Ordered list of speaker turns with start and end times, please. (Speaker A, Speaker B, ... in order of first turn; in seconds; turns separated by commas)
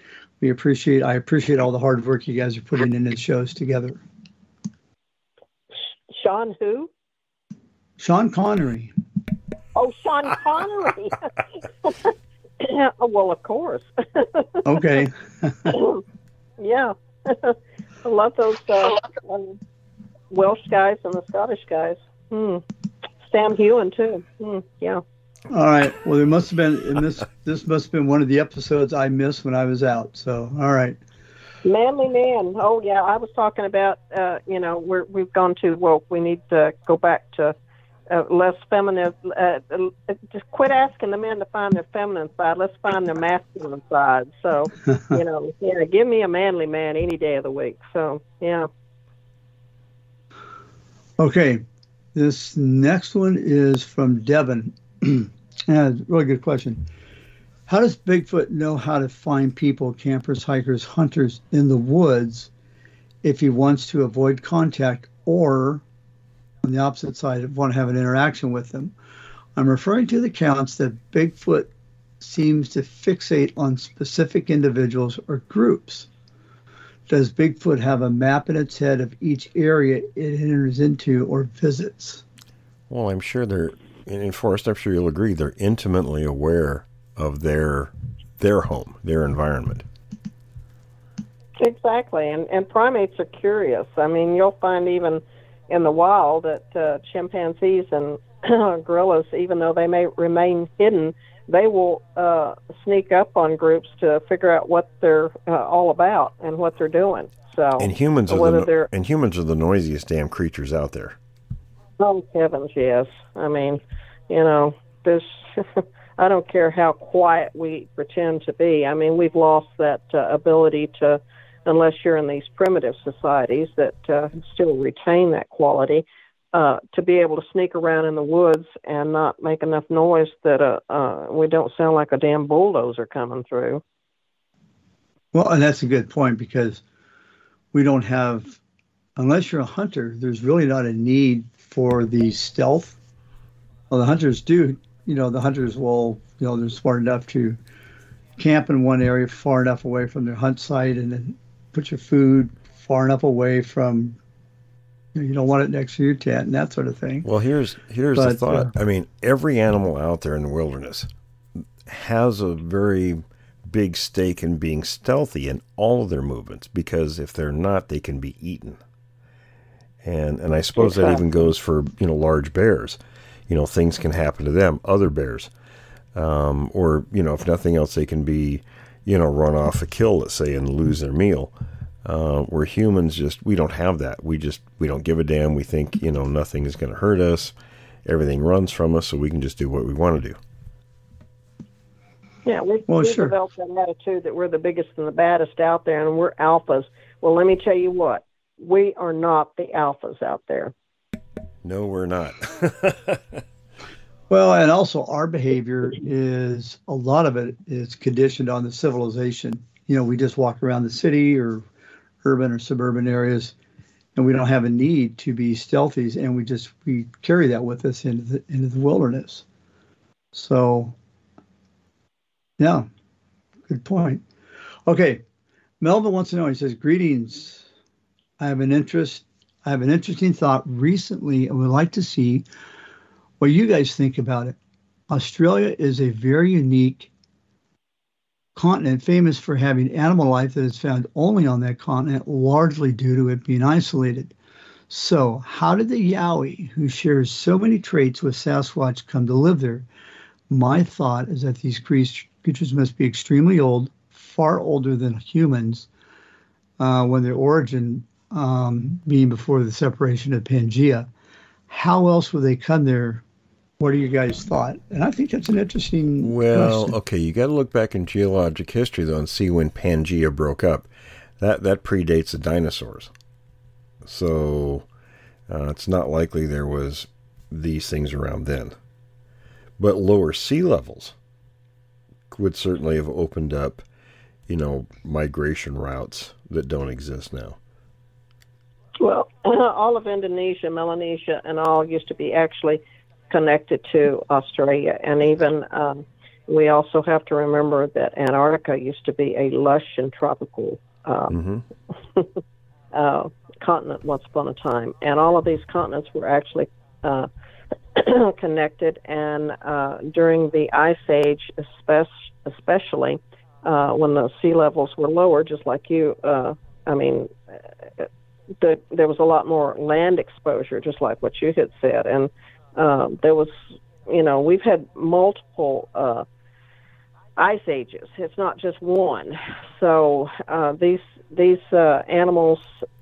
Speaker A: 0.4-4.0, Speaker B: 6.1-6.9, Speaker A: 8.0-8.9, Speaker B: 9.7-11.3, Speaker B: 11.8-14.6, Speaker A: 14.6-15.7, Speaker B: 15.7-16.0, Speaker B: 16.6-19.6, Speaker B: 20.3-22.6, Speaker B: 23.2-25.0, Speaker A: 25.5-31.0, Speaker B: 31.6-37.5, Speaker B: 38.1-48.7, Speaker A: 51.2-56.8, Speaker A: 57.7-62.5, Speaker A: 63.2-65.8, Speaker A: 66.6-68.9, Speaker A: 69.5-76.1, Speaker A: 77.1-82.2, Speaker C: 82.9-89.8, Speaker B: 91.6-108.9, Speaker C: 107.8-111.2, Speaker B: 112.0-133.8, Speaker A: 135.3-136.8, Speaker A: 137.7-138.6, Speaker A: 139.2-143.0, Speaker A: 143.9-147.6, Speaker A: 148.4-154.2, Speaker A: 155.1-157.3, Speaker C: 157.2-161.1, Speaker A: 158.1-158.7, Speaker C: 161.8-168.8, Speaker C: 170.0-175.5, Speaker B: 170.7-171.3, Speaker C: 176.1-181.5, Speaker C: 182.0-187.5, Speaker C: 188.0-190.4, Speaker B: 192.4-200.7, Speaker A: 192.9-193.3, Speaker C: 201.6-203.4, Speaker A: 204.3-211.7, Speaker A: 212.2-213.5, Speaker A: 214.1-219.4, Speaker A: 220.3-220.9, Speaker A: 222.6-222.9, Speaker A: 223.7-224.2, Speaker A: 224.8-225.2, Speaker A: 225.8-227.7, Speaker A: 228.4-232.5, Speaker A: 233.4-234.6, Speaker A: 235.1-237.1, Speaker A: 238.5-244.3, Speaker A: 244.9-249.9, Speaker A: 250.5-255.9, Speaker A: 256.8-261.1, Speaker A: 261.7-263.2, Speaker A: 263.8-266.9, Speaker C: 266.2-270.9, Speaker C: 271.4-273.1, Speaker C: 274.0-274.9, Speaker C: 275.5-278.7, Speaker C: 279.8-281.1, Speaker C: 282.3-283.8, Speaker C: 284.5-287.6, Speaker B: 289.0-301.3, Speaker C: 301.3-301.6, Speaker B: 302.9-307.3, Speaker B: 307.9-317.3, Speaker B: 318.6-326.2, Speaker B: 327.4-332.7